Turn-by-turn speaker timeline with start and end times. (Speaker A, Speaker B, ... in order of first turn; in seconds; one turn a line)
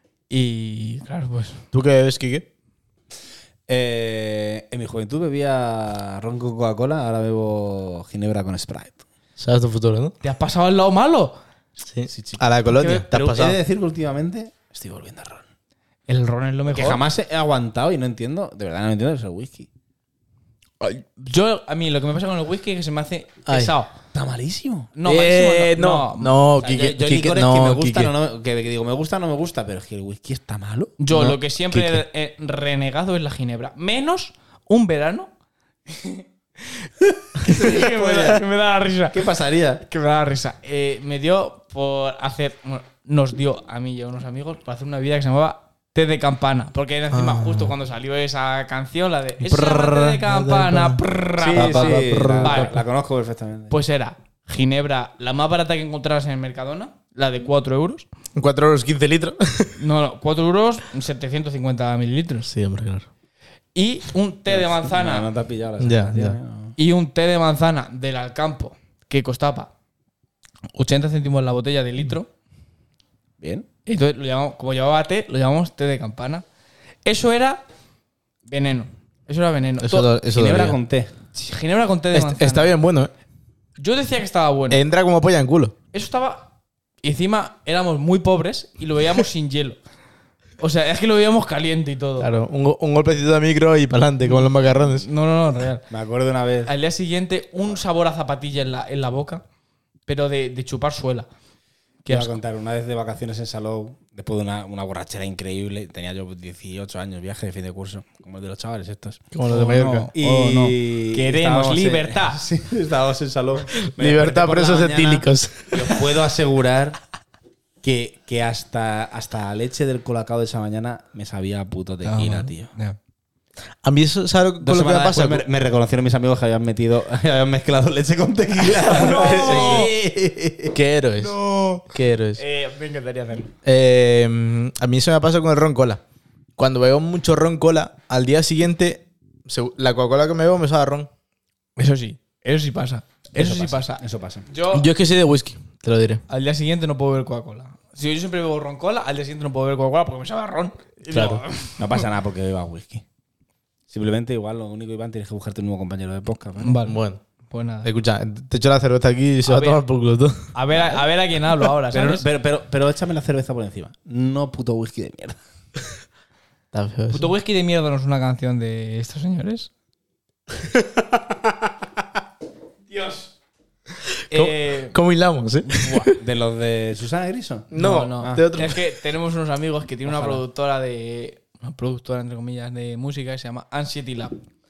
Speaker A: 0.3-1.6
Speaker B: 1.7-2.5
Speaker C: 3.7-9.0
Speaker B: 9.4-10.1
Speaker A: 10.2-11.4
Speaker B: 11.8-13.6
Speaker C: 12.1-12.4
Speaker A: 12.7-13.1
Speaker C: 13.1-15.4
Speaker A: 16.1-17.0
Speaker C: 16.7-19.7
Speaker A: 20.8-23.9
Speaker B: 23.5-23.7
Speaker C: 24.1-24.9
Speaker A: 25.0-27.0
Speaker B: 25.1-28.1
Speaker C: 26.6-31.0
Speaker A: 31.0-35.3
Speaker B: 31.1-32.0
Speaker A: 35.9-39.2
Speaker C: 37.4-38.4
Speaker C: 39.1-39.8
Speaker A: 39.9-52.8
Speaker B: 47.1-47.7
Speaker B: 49.4-52.8
Speaker C: 51.4-53.8
Speaker A: 53.7-58.1
Speaker B: 58.4-59.8
Speaker A: 59.8-62.5
Speaker B: 62.5-63.1
Speaker A: 63.8-65.3
Speaker C: 64.5-66.8
Speaker B: 65.8-66.3
Speaker A: 66.8-69.7
Speaker A: 70.8-72.3
Speaker C: 73.4-73.7
Speaker A: 73.9-76.4
Speaker A: 77.0-77.6
Speaker A: 78.5-80.1
Speaker B: 79.8-80.8
Speaker C: 80.3-81.1
Speaker A: 81.3-82.7
Speaker B: 82.1-83.1
Speaker A: 83.8-84.8
Speaker B: 84.7-85.8
Speaker A: 85.9-86.5
Speaker A: 87.0-89.8
Speaker A: 90.6-92.3
Speaker B: 92.2-95.1
Speaker A: 94.2-95.9
Speaker C: 95.9-96.7
Speaker A: 96.7-99.4
Speaker A: 100.1-101.3
Speaker A: 102.0-102.4
Speaker C: 102.1-109.2
Speaker B: 109.3-110.1
Speaker A: 109.5-112.4
Speaker C: 110.2-117.0
Speaker B: 113.8-116.1
Speaker C: 117.8-122.7
Speaker A: 122.0-123.0
Speaker B: 123.8-125.5
Speaker C: 124.6-130.8
Speaker A: 128.8-129.9
Speaker B: 129.0-129.9
Speaker B: 130.7-132.4
Speaker A: 131.2-131.8
Speaker A: 132.4-133.5
Speaker B: 133.7-136.0
Speaker B: 136.6-141.1
Speaker A: 141.8-144.9
Speaker C: 143.3-144.5
Speaker B: 144.7-146.2
Speaker A: 146.3-152.0
Speaker B: 151.1-151.4
Speaker C: 151.8-153.0
Speaker C: 153.9-156.8
Speaker A: 156.6-157.0
Speaker B: 156.8-157.2
Speaker A: 157.5-157.9
Speaker B: 157.8-160.4
Speaker A: 159.5-159.8
Speaker A: 160.5-162.2
Speaker C: 160.7-161.1
Speaker C: 161.9-165.4
Speaker B: 166.7-167.3
Speaker A: 167.1-169.7
Speaker B: 170.6-171.7
Speaker A: 172.9-173.3
Speaker B: 174.3-176.2
Speaker A: 174.3-175.0
Speaker A: 175.7-176.1
Speaker C: 176.2-178.4
Speaker B: 177.7-178.8
Speaker A: 177.8-184.3
Speaker C: 180.1-180.4